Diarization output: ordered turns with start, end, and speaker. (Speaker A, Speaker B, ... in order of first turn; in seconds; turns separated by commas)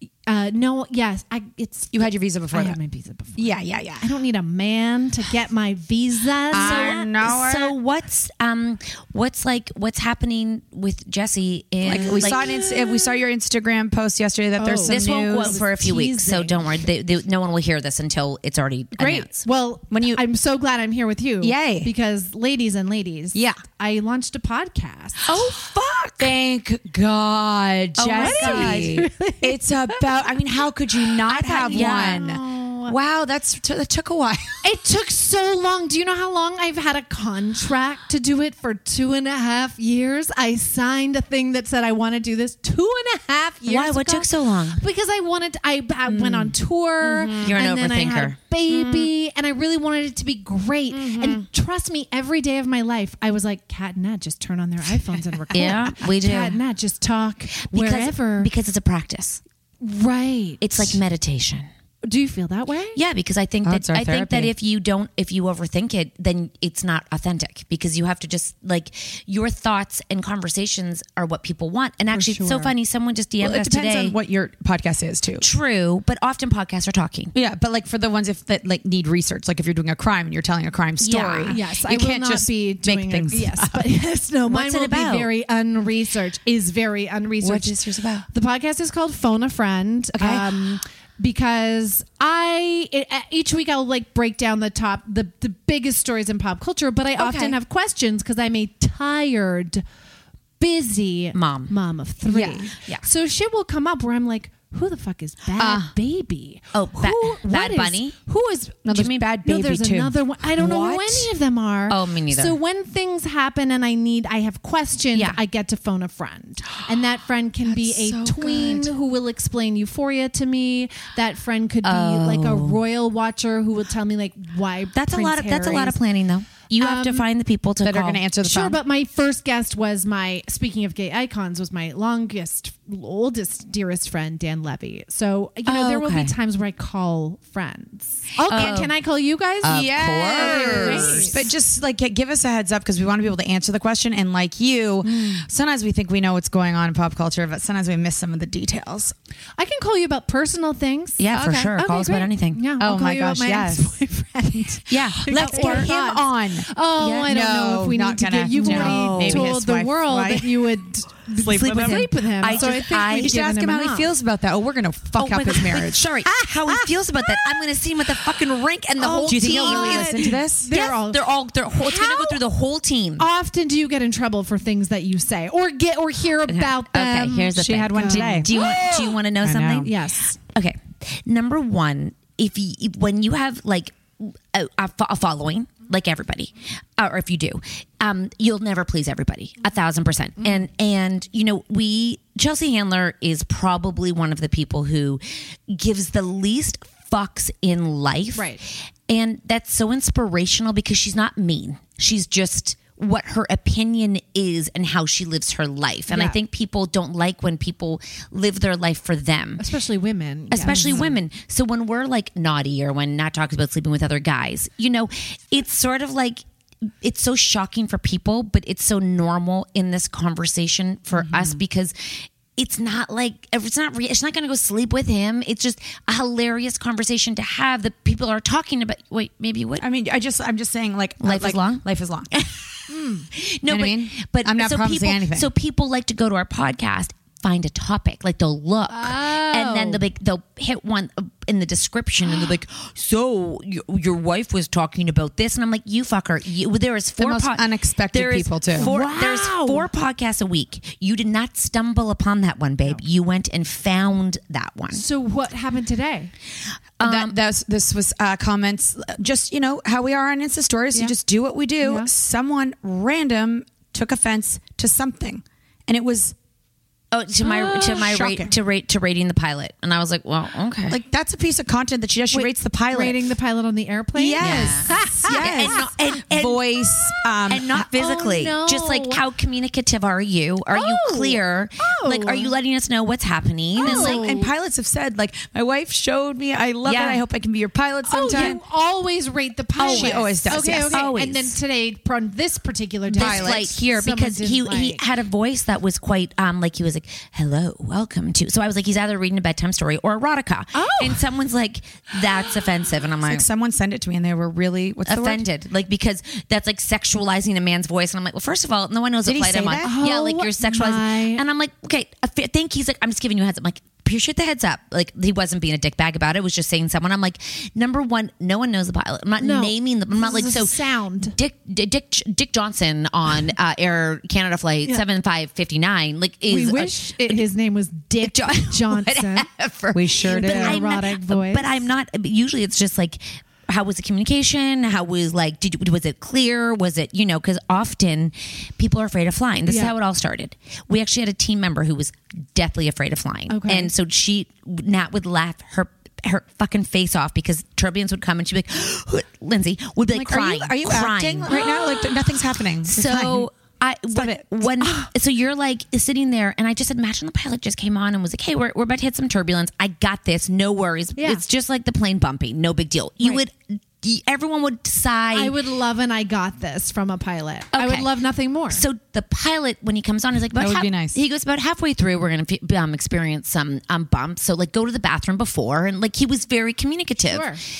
Speaker A: 0.2-7.1, Speaker B: 1.9-2.8, Speaker B: 3.3-4.1, Speaker B: 6.5-7.7, Speaker C: 6.5-12.5, Speaker A: 11.8-13.1, Speaker B: 11.8-15.6, Speaker A: 14.6-16.9, Speaker C: 14.8-19.4, Speaker A: 18.9-25.3, Speaker B: 19.9-20.2, Speaker B: 21.4-21.9, Speaker B: 23.3-23.6, Speaker B: 25.3-25.6, Speaker C: 25.3-26.3, Speaker B: 26.2-34.6, Speaker C: 28.0-29.0, Speaker A: 28.1-30.3, Speaker A: 31.0-33.0, Speaker C: 31.6-32.2, Speaker A: 34.6-58.5, Speaker C: 43.6-44.8, Speaker B: 46.0-47.6, Speaker C: 47.4-48.4, Speaker B: 48.7-49.1, Speaker B: 50.9-51.5, Speaker B: 55.0-55.7, Speaker C: 55.5-56.6, Speaker C: 57.6-59.4, Speaker A: 59.8-61.0, Speaker C: 60.6-61.7, Speaker A: 62.0-63.0, Speaker C: 62.9-74.2, Speaker B: 63.6-64.5, Speaker A: 72.1-72.7, Speaker B: 73.4-75.5, Speaker C: 75.4-77.3, Speaker B: 77.3-83.8, Speaker C: 81.0-81.6, Speaker A: 81.5-99.8, Speaker C: 84.5-85.3, Speaker B: 87.4-88.2, Speaker B: 90.2-90.5, Speaker C: 97.2-97.6, Speaker A: 100.6-126.0, Speaker C: 101.3-101.7, Speaker B: 102.2-102.7, Speaker B: 105.6-105.9, Speaker C: 106.7-108.2, Speaker B: 108.8-111.3, Speaker C: 108.9-109.2, Speaker C: 111.9-112.5, Speaker C: 115.1-115.4, Speaker B: 117.6-118.9, Speaker C: 121.8-122.8, Speaker C: 124.9-128.2, Speaker A: 126.8-127.3, Speaker B: 127.8-128.8, Speaker A: 128.4-141.5, Speaker C: 135.7-136.3, Speaker C: 138.4-138.9, Speaker C: 139.6-141.4, Speaker B: 139.6-149.1, Speaker A: 149.6-164.1, Speaker C: 151.2-152.6, Speaker B: 151.3-151.7, Speaker B: 152.8-154.0, Speaker C: 154.9-155.9, Speaker B: 154.9-156.7, Speaker C: 157.0-157.3, Speaker B: 157.2-160.8, Speaker C: 158.6-159.5, Speaker B: 161.3-166.1, Speaker C: 161.4-163.4, Speaker C: 165.2-173.2, Speaker A: 169.0-172.4, Speaker B: 169.0-170.7, Speaker A: 173.2-179.0, Speaker C: 176.5-209.6, Speaker B: 177.6-179.9, Speaker A: 179.8-180.4, Speaker A: 198.3-198.6, Speaker A: 206.1-206.4, Speaker A: 209.6-211.2, Speaker C: 210.5-216.4, Speaker B: 210.6-211.1, Speaker C: 217.0-229.8, Speaker B: 221.1-221.6, Speaker B: 229.8-232.3, Speaker C: 231.2-232.7, Speaker A: 232.9-233.3, Speaker C: 233.3-255.0, Speaker B: 233.7-235.5, Speaker A: 238.9-240.0, Speaker A: 242.2-242.5, Speaker B: 247.2-248.9, Speaker A: 248.7-249.9, Speaker A: 254.9-256.3, Speaker C: 257.0-257.3, Speaker B: 257.0-266.3, Speaker A: 261.8-262.1, Speaker C: 267.1-271.0, Speaker B: 267.4-268.5, Speaker B: 270.9-273.2, Speaker A: 272.3-275.9, Speaker B: 274.1-277.8, Speaker C: 274.4-276.7, Speaker C: 277.5-284.2, Speaker A: 277.7-279.2, Speaker A: 280.7-282.5, Speaker A: 283.7-284.5, Speaker B: 283.8-288.6, Speaker C: 286.8-287.2, Speaker A: 288.1-295.0, Speaker C: 288.3-288.6, Speaker B: 289.8-291.1, Speaker C: 289.8-291.6, Speaker C: 293.1-303.4, Speaker B: 293.1-293.7, Speaker A: 300.7-301.2, Speaker B: 303.2-305.4, Speaker C: 305.1-327.4, Speaker B: 309.2-309.9, Speaker A: 309.8-311.4, Speaker A: 319.4-321.4, Speaker A: 326.5-329.5, Speaker C: 328.2-351.7, Speaker B: 329.9-330.8, Speaker A: 330.2-331.9, Speaker A: 339.6-339.9, Speaker A: 343.5-343.9, Speaker B: 350.1-353.5, Speaker A: 351.5-352.1, Speaker C: 352.8-365.5, Speaker B: 354.1-355.0, Speaker A: 361.2-361.4, Speaker A: 365.3-368.8, Speaker C: 367.7-368.1, Speaker C: 368.7-377.5, Speaker B: 370.5-371.2, Speaker A: 377.2-377.6